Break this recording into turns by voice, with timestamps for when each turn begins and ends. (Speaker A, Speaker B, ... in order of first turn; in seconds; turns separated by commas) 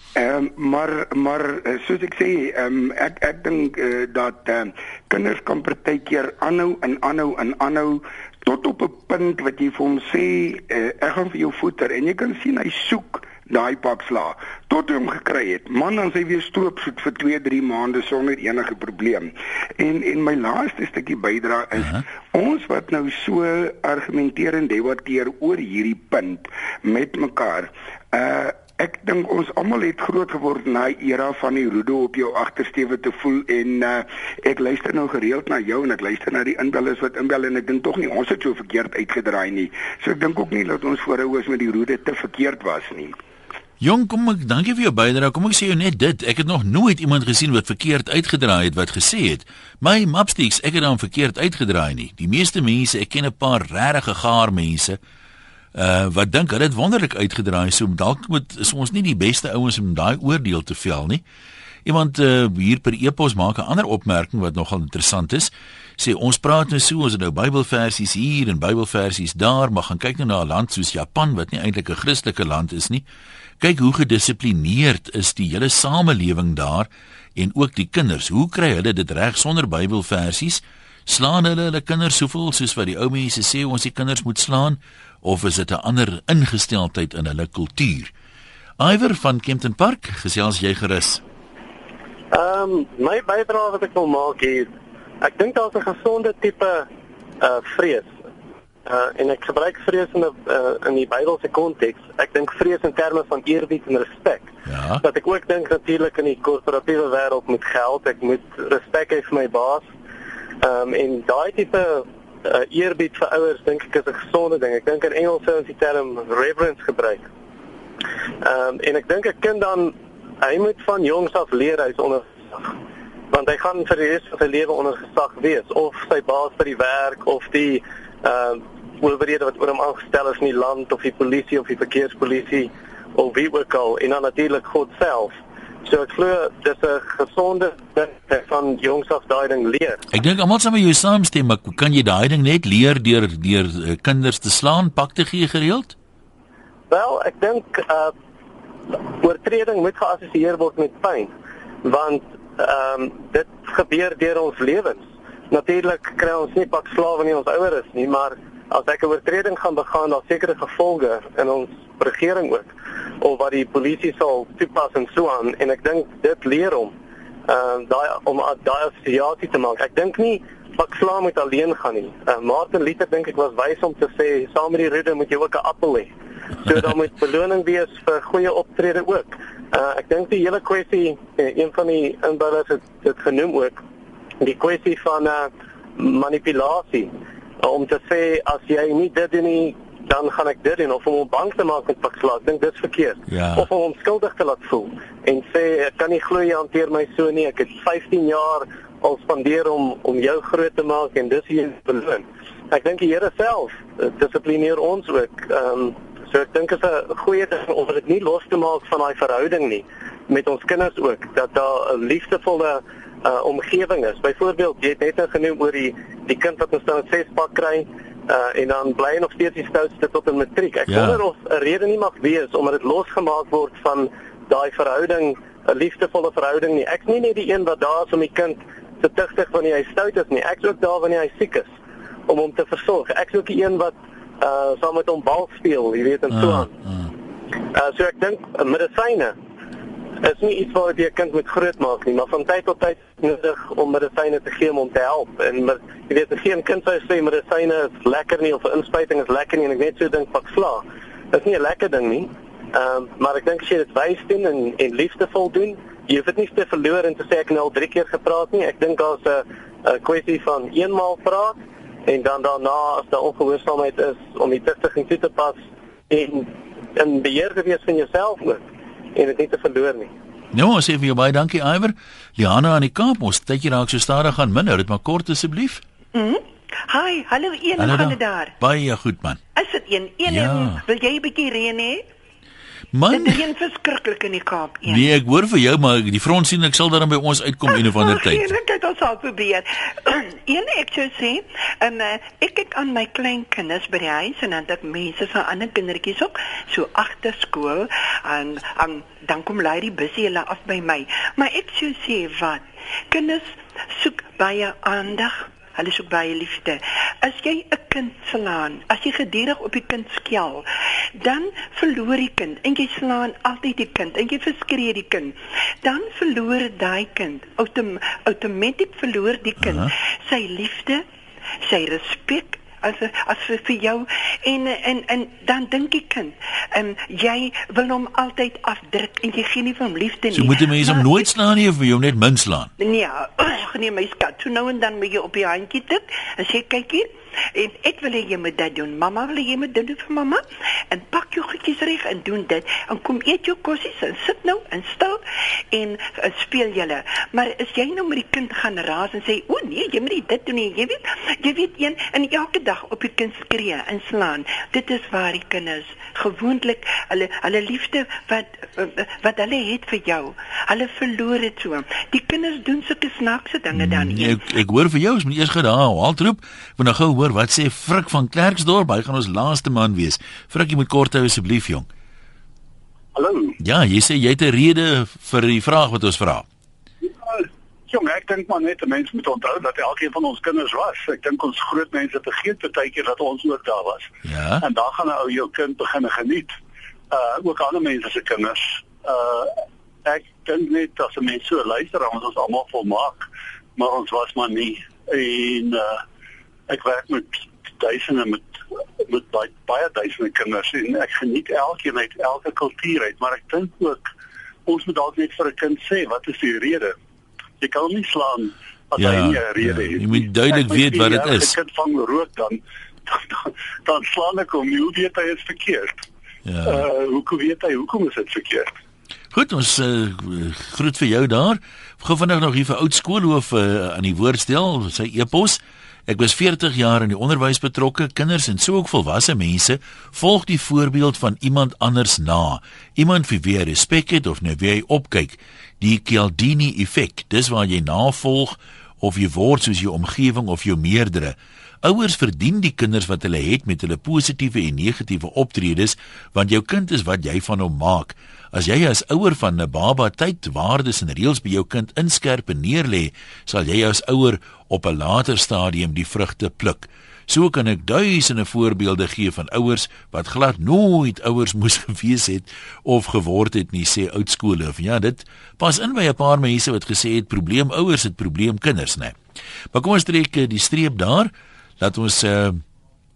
Speaker A: 0.1-43.2, Speaker B: 21.8-22.0, Speaker B: 43.8-55.0, Speaker B: 55.7-61.2, Speaker B: 61.8-73.0, Speaker B: 73.6-88.1, Speaker B: 88.8-91.2, Speaker C: 92.3-94.7, Speaker C: 95.2-96.9, Speaker C: 97.4-98.1, Speaker C: 98.9-104.5, Speaker B: 104.7-105.0, Speaker C: 105.0-109.9, Speaker C: 110.6-117.2, Speaker C: 118.4-122.7, Speaker C: 123.3-140.0, Speaker B: 140.1-145.9, Speaker C: 146.9-148.1, Speaker C: 149.2-151.3, Speaker C: 151.8-166.9, Speaker C: 167.5-176.1, Speaker C: 176.7-183.8, Speaker C: 184.4-231.7, Speaker B: 193.3-193.7, Speaker B: 220.9-221.2, Speaker C: 232.3-236.7, Speaker B: 236.3-237.1, Speaker C: 237.7-239.3, Speaker C: 240.2-261.5, Speaker C: 262.1-265.6, Speaker C: 266.1-268.6, Speaker C: 269.1-270.1, Speaker B: 270.5-275.8, Speaker D: 276.1-278.5, Speaker B: 277.8-279.4, Speaker D: 279.5-282.1, Speaker B: 280.3-280.8, Speaker B: 282.9-283.4, Speaker D: 283.1-285.1, Speaker B: 284.9-288.5, Speaker D: 287.6-321.0, Speaker B: 319.6-319.9, Speaker D: 321.6-331.3, Speaker B: 330.3-332.7, Speaker D: 332.8-364.5, Speaker B: 363.7-371.9, Speaker E: 373.1-373.6, Speaker B: 373.6-376.4, Speaker E: 377.2-386.6, Speaker B: 384.2-384.6, Speaker E: 387.1-396.0, Speaker E: 396.7-404.1, Speaker E: 404.6-406.9, Speaker E: 407.6-416.0, Speaker B: 409.0-411.5, Speaker B: 416.4-416.9, Speaker E: 416.6-418.7, Speaker B: 419.3-469.2, Speaker B: 469.7-472.6